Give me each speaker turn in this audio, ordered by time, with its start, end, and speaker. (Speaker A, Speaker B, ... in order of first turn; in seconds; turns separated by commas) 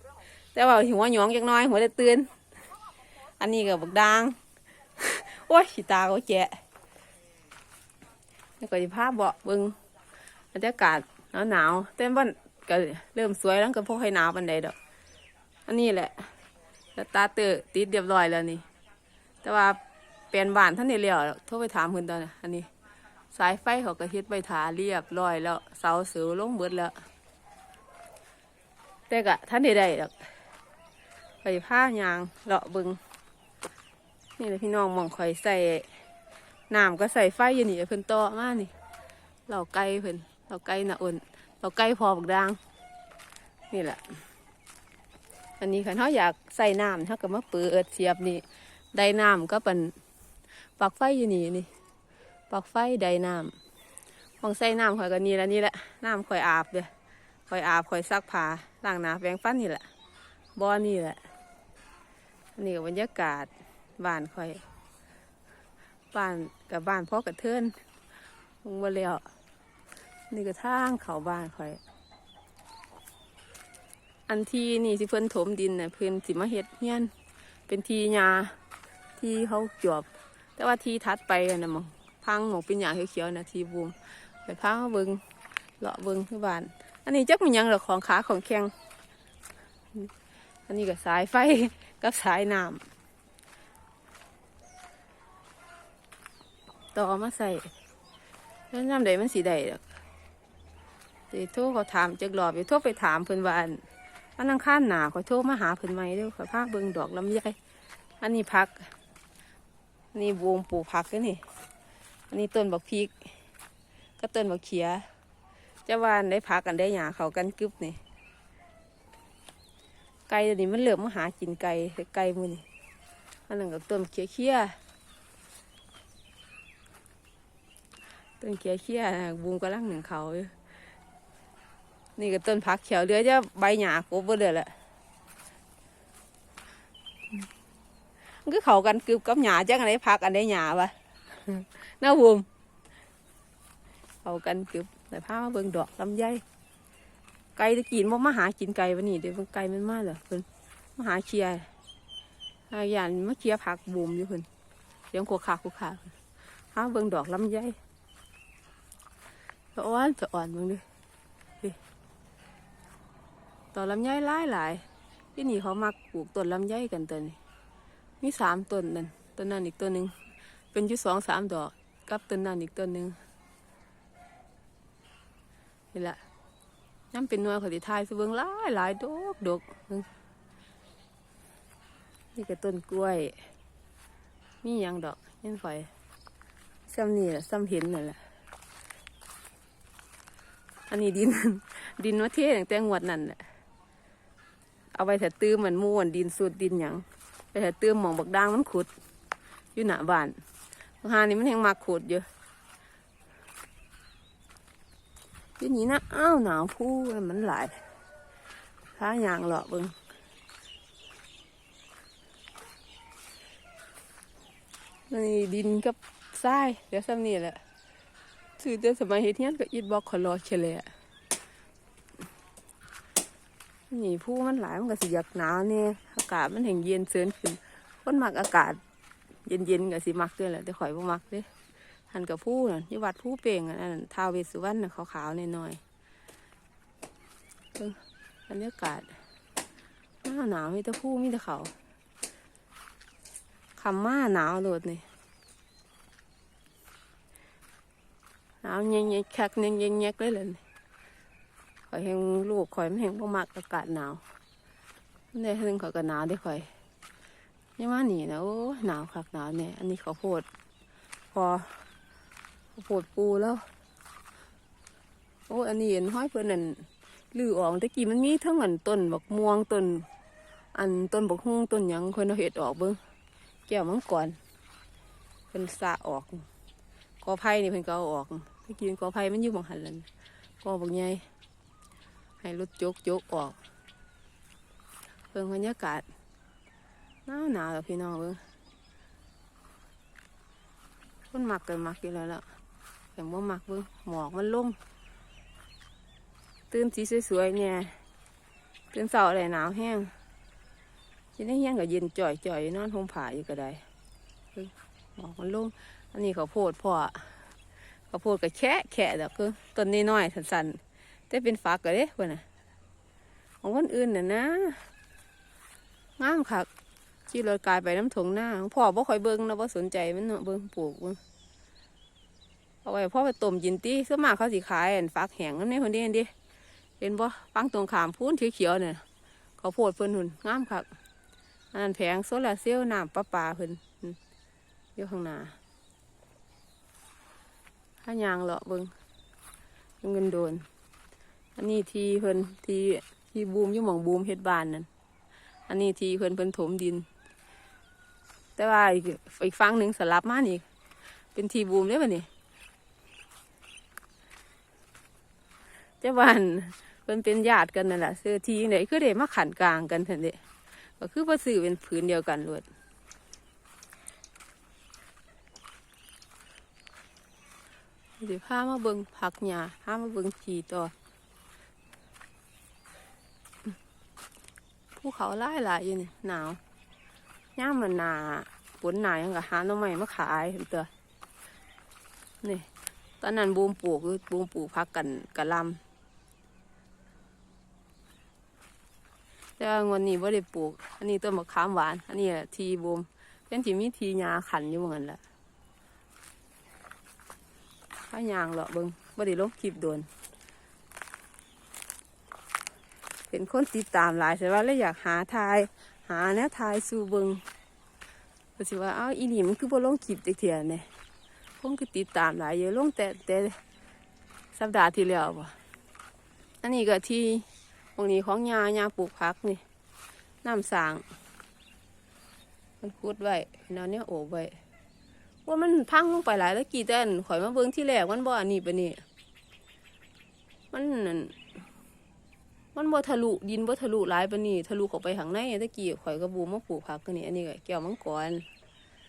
Speaker A: 0.5-2.3, Speaker A: 3.4-4.4, Speaker A: 5.0-6.6, Speaker A: 8.6-9.8, Speaker A: 10.5-14.8, Speaker A: 15.7-16.3, Speaker A: 16.9-18.6, Speaker A: 19.4-19.8, Speaker A: 20.3-22.7, Speaker A: 23.3-27.0, Speaker A: 29.1-30.2, Speaker A: 31.4-33.0, Speaker A: 34.4-35.9, Speaker A: 36.7-38.7, Speaker A: 39.5-42.6, Speaker A: 43.7-44.2, Speaker A: 45.6-50.0, Speaker A: 50.8-51.7, Speaker A: 52.5-53.6, Speaker A: 54.4-56.9, Speaker A: 57.5-59.9, Speaker A: 60.6-61.2, Speaker A: 62.6-64.6, Speaker A: 66.1-67.8, Speaker A: 68.6-69.2, Speaker A: 70.3-71.8, Speaker A: 74.3-77.1, Speaker A: 77.7-78.6, Speaker A: 79.2-85.2, Speaker A: 85.8-88.7, Speaker A: 90.7-92.9, Speaker A: 96.9-97.7, Speaker A: 98.7-99.9, Speaker A: 101.3-103.8, Speaker A: 104.4-107.6, Speaker A: 108.2-108.9, Speaker A: 110.1-111.4, Speaker A: 112.3-113.3, Speaker A: 114.2-115.1, Speaker A: 115.9-118.0, Speaker A: 120.3-122.7, Speaker A: 123.5-124.8, Speaker A: 128.4-130.5, Speaker A: 132.2-134.7, Speaker A: 138.4-142.5, Speaker A: 144.2-146.4, Speaker A: 147.6-151.7, Speaker A: 152.7-154.5, Speaker A: 155.1-156.1, Speaker A: 156.7-157.8, Speaker A: 159.8-160.8, Speaker A: 163.7-164.8, Speaker A: 165.3-167.4, Speaker A: 168.2-170.2, Speaker A: 170.7-173.2, Speaker A: 175.9-176.2, Speaker A: 177.1-180.1, Speaker A: 182.3-183.4, Speaker A: 184.6-185.9, Speaker A: 186.9-188.2, Speaker A: 190.9-193.4, Speaker A: 194.9-198.9, Speaker A: 199.8-200.3, Speaker A: 201.0-202.3, Speaker A: 205.6-207.8, Speaker A: 208.9-209.9, Speaker A: 215.1-217.6, Speaker A: 218.6-220.9, Speaker A: 223.9-228.8, Speaker A: 229.4-231.5, Speaker A: 232.1-235.8, Speaker A: 237.8-239.2, Speaker A: 240.2-241.7, Speaker A: 243.8-245.0, Speaker A: 248.6-250.6, Speaker A: 251.9-254.2, Speaker A: 255.3-256.7, Speaker A: 257.8-260.5, Speaker A: 261.3-261.8, Speaker A: 262.7-263.6, Speaker A: 265.5-270.1, Speaker A: 270.7-273.0, Speaker A: 273.7-274.4, Speaker A: 275.5-276.5, Speaker A: 277.2-280.1, Speaker A: 280.6-281.2, Speaker A: 282.4-283.6, Speaker A: 285.3-286.1, Speaker A: 287.3-288.4, Speaker A: 291.3-292.4, Speaker A: 293.2-294.8, Speaker A: 296.7-298.0, Speaker A: 298.9-300.1, Speaker A: 301.4-303.8, Speaker A: 304.5-307.4, Speaker A: 308.1-312.4, Speaker A: 313.6-314.9, Speaker A: 316.2-316.7, Speaker A: 317.3-321.2, Speaker A: 322.8-326.3, Speaker A: 327.0-329.0, Speaker A: 329.6-330.9, Speaker A: 331.7-334.2, Speaker A: 335.0-335.6, Speaker A: 338.0-338.9, Speaker A: 340.0-340.7, Speaker A: 341.6-344.9, Speaker A: 345.7-347.1, Speaker A: 348.6-350.6, Speaker A: 351.4-352.3, Speaker A: 356.0-360.4, Speaker A: 361.0-362.7, Speaker A: 368.2-370.9, Speaker A: 375.0-376.6, Speaker A: 377.6-380.9, Speaker A: 383.2-385.8, Speaker A: 389.6-395.2, Speaker A: 398.1-400.1, Speaker A: 403.3-407.4, Speaker A: 408.6-410.9, Speaker A: 411.6-413.6, Speaker A: 414.6-415.6, Speaker A: 416.6-419.6, Speaker A: 420.4-421.1, Speaker A: 422.8-424.6, Speaker A: 425.5-429.0, Speaker A: 430.7-431.4, Speaker A: 432.8-438.5